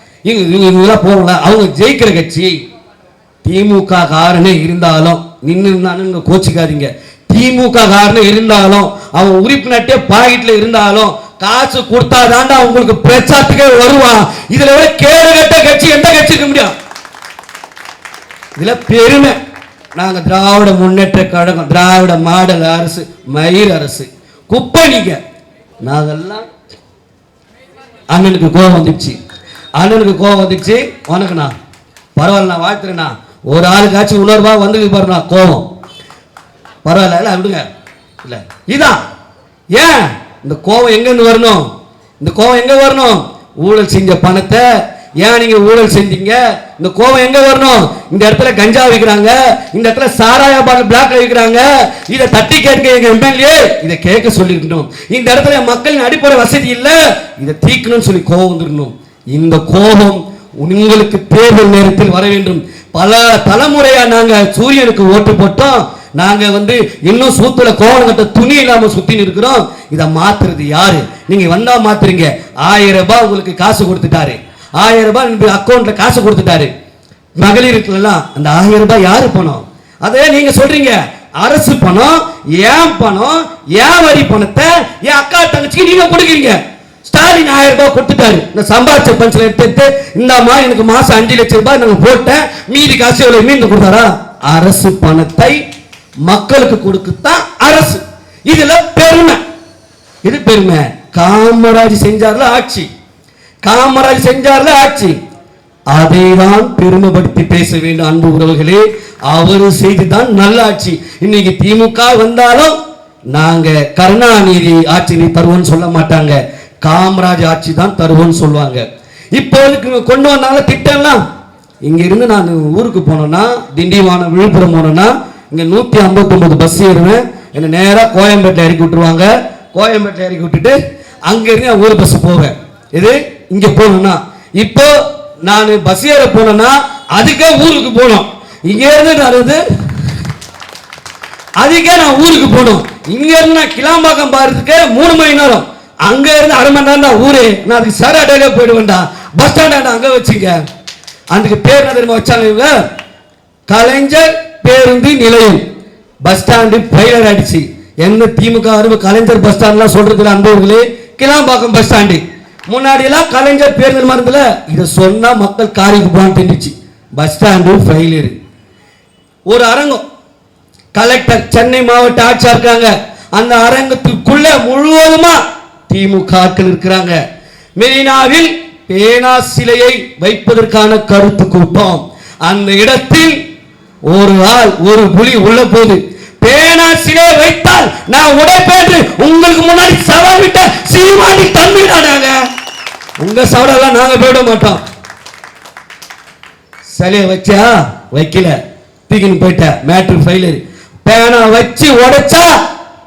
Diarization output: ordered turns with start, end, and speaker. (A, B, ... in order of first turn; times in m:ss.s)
0:00.2-0:02.6 A
0:03.4-0:16.7 A
0:18.6-0:19.4 A
0:20.0-0:25.2 A
0:25.8-0:26.5 A
0:28.1-0:29.2 A
0:29.8-0:31.5 A
0:32.2-0:35.7 A
0:36.8-0:37.7 A
0:38.2-0:39.0 A
0:39.7-0:41.7 A
0:42.2-1:16.7 A
1:17.4-1:35.6 A
1:36.2-1:39.4 A
1:40.2-1:42.9 A
1:43.6-1:45.2 A
1:45.9-1:52.8 A
1:53.3-2:01.2 A
2:01.8-2:19.6 A
2:21.6-2:30.6 A
2:31.3-2:32.8 A
2:33.7-2:35.6 A
2:36.2-2:48.4 A
2:49.5-2:50.0 A
2:50.9-2:57.2 A
2:57.8-3:03.4 A
3:04.1-3:12.5 A
3:13.2-3:14.8 A
3:16.9-3:22.6 A